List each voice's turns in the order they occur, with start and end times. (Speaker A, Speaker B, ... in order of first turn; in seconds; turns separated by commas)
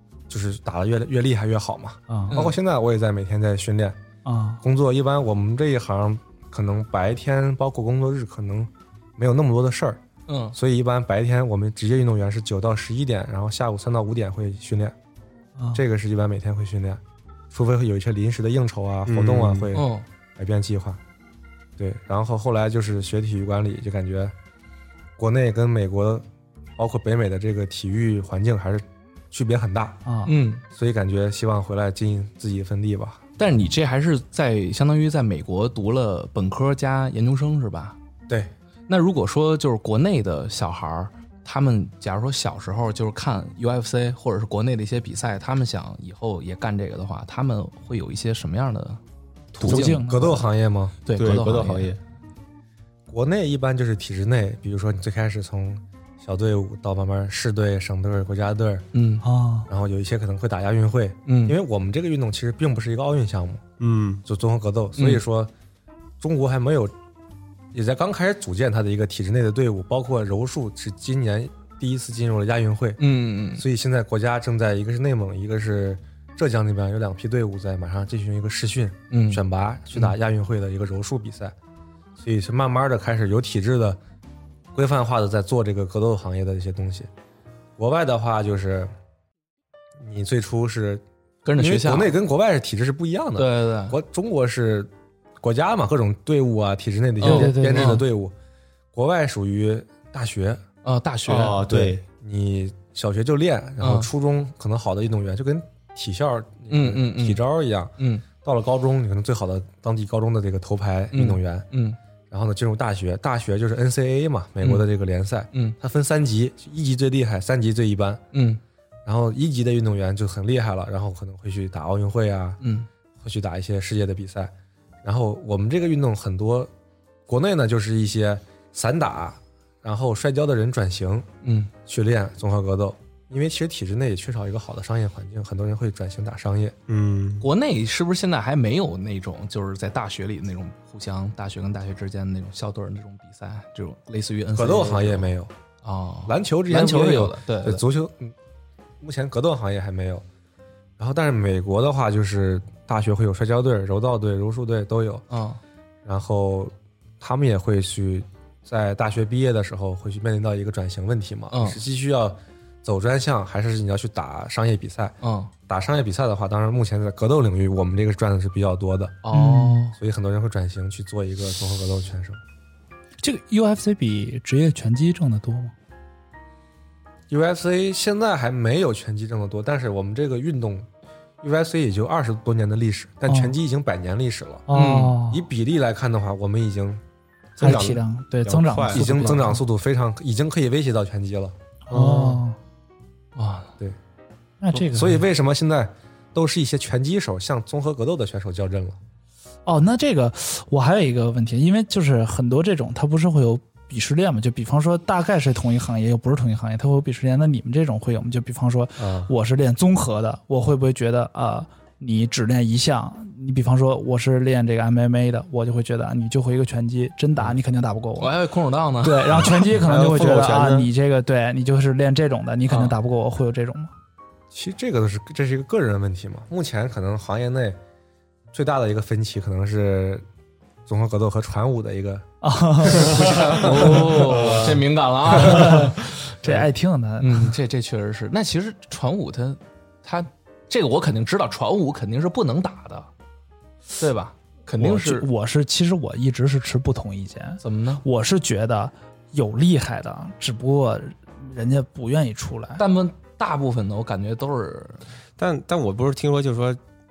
Speaker A: 0.3-4.0, Speaker B: 2.1-2.4, Speaker C: 2.3-2.5, Speaker B: 4.2-4.6, Speaker A: 4.6-10.0, Speaker C: 10.3-10.6, Speaker A: 10.5-14.9, Speaker A: 15.7-21.0, Speaker D: 19.1-19.7, Speaker C: 19.7-20.0, Speaker A: 21.8-24.3, Speaker A: 25.2-26.2, Speaker A: 26.8-30.0, Speaker B: 30.0-30.3, Speaker C: 30.2-30.6, Speaker A: 30.7-33.2, Speaker C: 33.4-38.0, Speaker C: 38.9-49.0, Speaker A: 49.5-50.9, Speaker C: 49.6-49.9, Speaker B: 49.6-50.4, Speaker C: 51.0-51.9, Speaker D: 51.1-52.0, Speaker A: 53.1-58.9, Speaker C: 58.9-59.2, Speaker B: 59.2-59.7, Speaker A: 59.7-63.6, Speaker C: 61.2-61.5, Speaker D: 63.8-64.2, Speaker A: 64.2-65.5, Speaker C: 65.0-65.2, Speaker A: 66.2-66.9, Speaker A: 67.7-73.0, Speaker C: 73.0-73.6, Speaker A: 73.5-81.5, Speaker C: 79.1-79.4, Speaker A: 82.2-84.0, Speaker A: 84.7-87.1, Speaker A: 87.8-88.9, Speaker A: 90.0-91.0, Speaker C: 91.4-92.2, Speaker A: 91.6-98.3, Speaker C: 93.4-94.0, Speaker C: 97.2-98.0, Speaker B: 97.2-98.0, Speaker A: 98.9-100.6, Speaker C: 100.8-101.7, Speaker D: 101.2-102.0, Speaker A: 101.7-111.7, Speaker C: 103.8-104.1, Speaker C: 106.7-107.4, Speaker C: 108.0-108.2, Speaker C: 111.1-112.0, Speaker A: 112.3-118.2, Speaker C: 118.3-118.6, Speaker A: 119.0-122.6, Speaker C: 122.6-122.9, Speaker A: 123.2-124.5, Speaker A: 125.0-126.7, Speaker A: 127.3-131.3, Speaker C: 131.4-131.7, Speaker A: 131.8-136.7, Speaker D: 136.9-137.5, Speaker C: 137.4-145.3, Speaker A: 144.5-145.5, Speaker C: 145.8-147.8, Speaker A: 146.2-148.3, Speaker A: 149.0-150.2, Speaker A: 151.0-155.2, Speaker C: 155.3-155.6, Speaker A: 156.0-165.2, Speaker C: 161.5-161.8, Speaker C: 165.2-165.5, Speaker A: 165.7-169.2, Speaker C: 169.2-169.9, Speaker B: 169.3-169.9, Speaker A: 169.9-172.4, Speaker B: 173.2-175.7, Speaker A: 177.3-180.9, Speaker A: 181.4-184.7, Speaker B: 183.3-183.5, Speaker B: 184.7-185.4, Speaker C: 184.7-185.2, Speaker A: 185.3-187.0, Speaker D: 187.6-189.4, Speaker B: 187.6-189.6, Speaker A: 188.9-191.6, Speaker D: 191.9-192.4, Speaker B: 191.9-192.6, Speaker C: 193.3-193.7, Speaker B: 194.6-195.2, Speaker A: 194.7-199.0, Speaker B: 199.7-218.3, Speaker A: 209.0-209.3, Speaker C: 218.2-219.6, Speaker B: 219.0-223.9, Speaker D: 219.6-220.9, Speaker C: 222.7-223.0, Speaker A: 224.5-227.8, Speaker A: 228.5-230.2, Speaker A: 230.9-232.2, Speaker B: 232.4-233.2, Speaker A: 232.8-234.0, Speaker C: 232.9-236.5, Speaker D: 233.6-234.8, Speaker B: 235.3-237.6, Speaker C: 237.2-243.1, Speaker C: 244.0-245.3, Speaker B: 244.8-252.8, Speaker C: 247.6-248.0, Speaker C: 252.8-255.0, Speaker D: 255.4-256.8